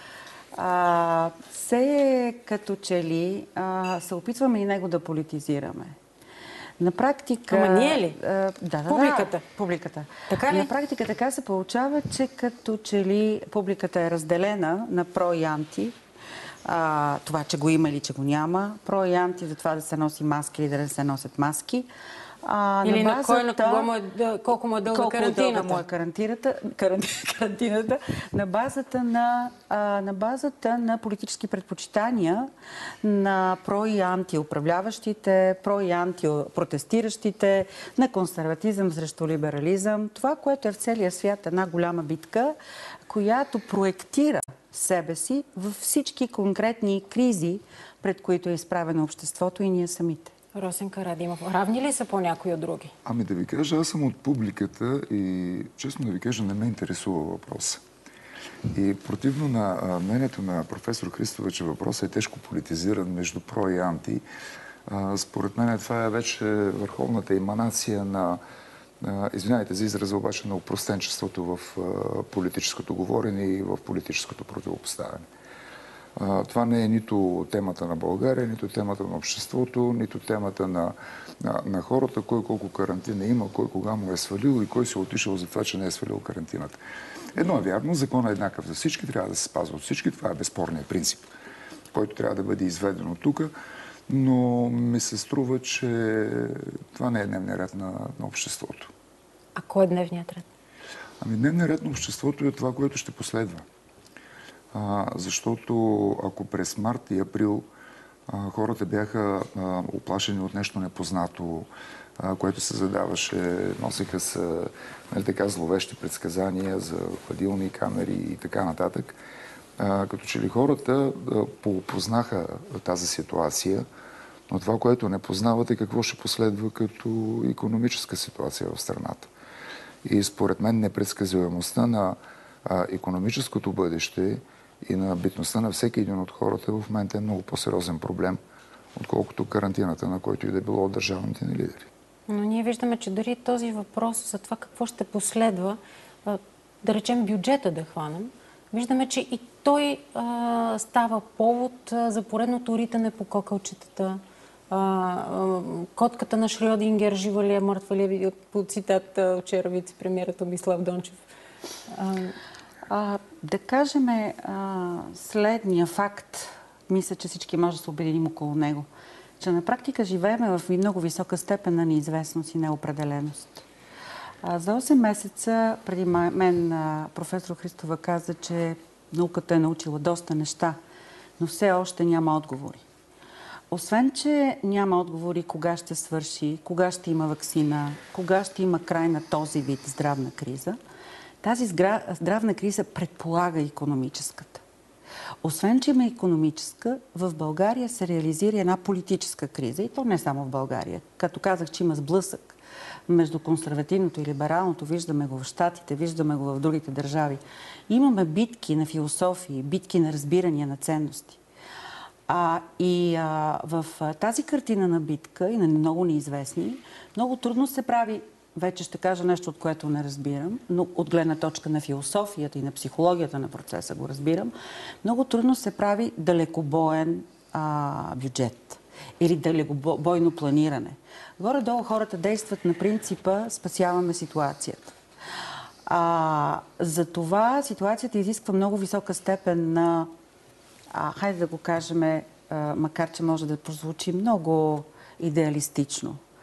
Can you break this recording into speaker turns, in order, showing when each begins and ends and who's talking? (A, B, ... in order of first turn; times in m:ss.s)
0:00.5-0:06.0 A
0:06.8-0:15.9 A
0:07.5-0:08.2 B
0:08.9-0:09.4 B
0:10.3-0:10.7 B
0:16.6-0:21.9 A
0:22.4-0:23.9 A
0:22.8-0:25.8 B
0:24.9-0:32.5 A
0:33.0-0:42.6 A
0:43.1-0:50.3 A
0:50.5-0:52.9 B
0:53.0-0:57.8 C
0:58.7-1:04.2 C
1:04.8-1:08.4 C
1:09.0-1:15.3 C
1:16.2-1:26.8 C
1:27.3-1:31.3 C
1:31.9-1:33.5 C
1:34.1-1:38.9 C
1:39.5-1:40.4 B
1:41.2-1:43.6 C
1:44.7-1:47.7 C
1:48.3-1:59.2 C
1:59.8-2:03.8 C
2:04.5-2:09.3 C
2:10.0-2:18.4 C
2:18.9-2:21.9 C
2:22.3-2:41.2 B
2:41.9-2:42.4 B
2:42.9-2:48.9 A
2:49.4-2:53.6 A
2:54.4-3:00.8 A
3:01.4-3:02.8 A
3:03.7-3:10.8 A
3:11.4-3:14.6 A
3:15.4-3:22.5 A
3:23.1-3:31.4 A
3:32.3-3:54.9 A
3:55.8-4:00.1 A
4:00.9-4:06.2 A